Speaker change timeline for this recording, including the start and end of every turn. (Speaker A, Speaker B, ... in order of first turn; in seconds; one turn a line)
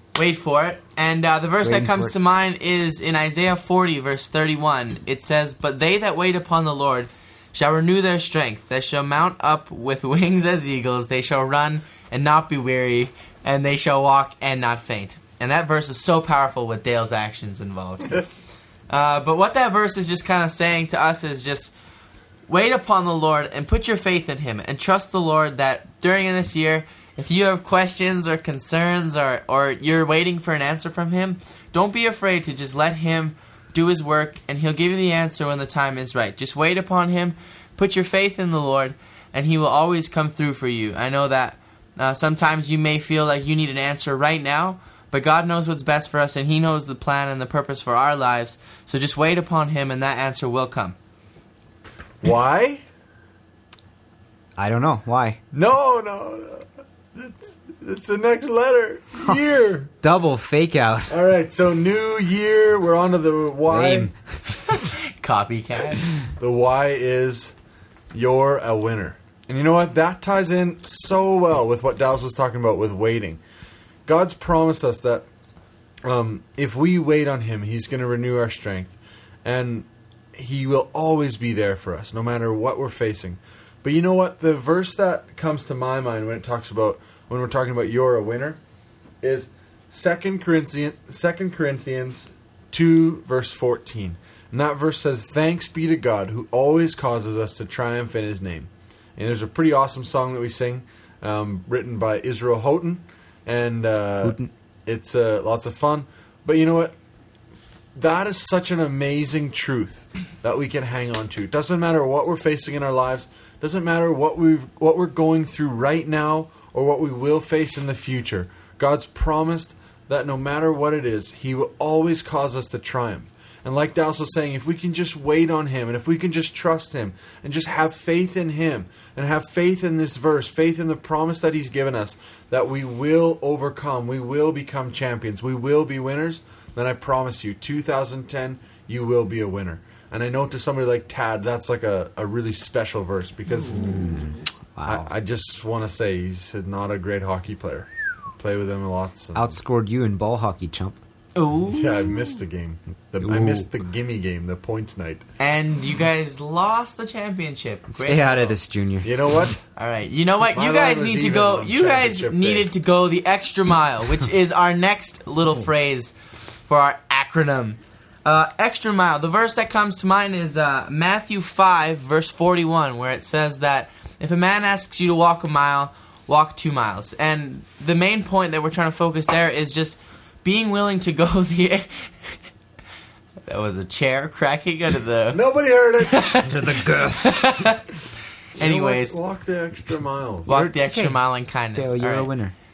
Speaker A: 0.1-18.3
Speaker B: 1.6-2.1
Speaker A: 18.9-21.7
Speaker A: 22.5-51.0
Speaker C: 52.2-52.8
Speaker B: 54.6-55.4
Speaker C: 55.5-59.9
Speaker B: 60.0-61.1
Speaker C: 61.1-64.1
Speaker B: 63.7-64.1
Speaker A: 64.6-66.1
Speaker C: 66.4-67.5
Speaker C: 68.1-73.4
Speaker C: 74.1-75.3
Speaker C: 76.0-88.6
Speaker C: 89.2-106.9
Speaker B: 104.2-104.5
Speaker C: 108.0-144.1
Speaker B: 143.7-145.1
Speaker C: 144.8-149.6
Speaker B: 149.3-151.0
Speaker A: 151.4-152.3
Speaker C: 151.7-155.2
Speaker B: 153.2-153.7
Speaker A: 155.4-158.6
Speaker B: 157.9-159.2
Speaker C: 159.0-159.6
Speaker A: 159.8-166.1
Speaker C: 160.5-162.7
Speaker A: 166.7-182.4
Speaker A: 183.5-185.4
Speaker C: 185.3-186.3
Speaker A: 186.1-187.8
Speaker B: 186.5-187.4
Speaker A: 188.6-189.2
Speaker C: 188.6-190.5
Speaker A: 190.5-192.3
Speaker B: 190.5-191.2
Speaker B: 191.8-192.5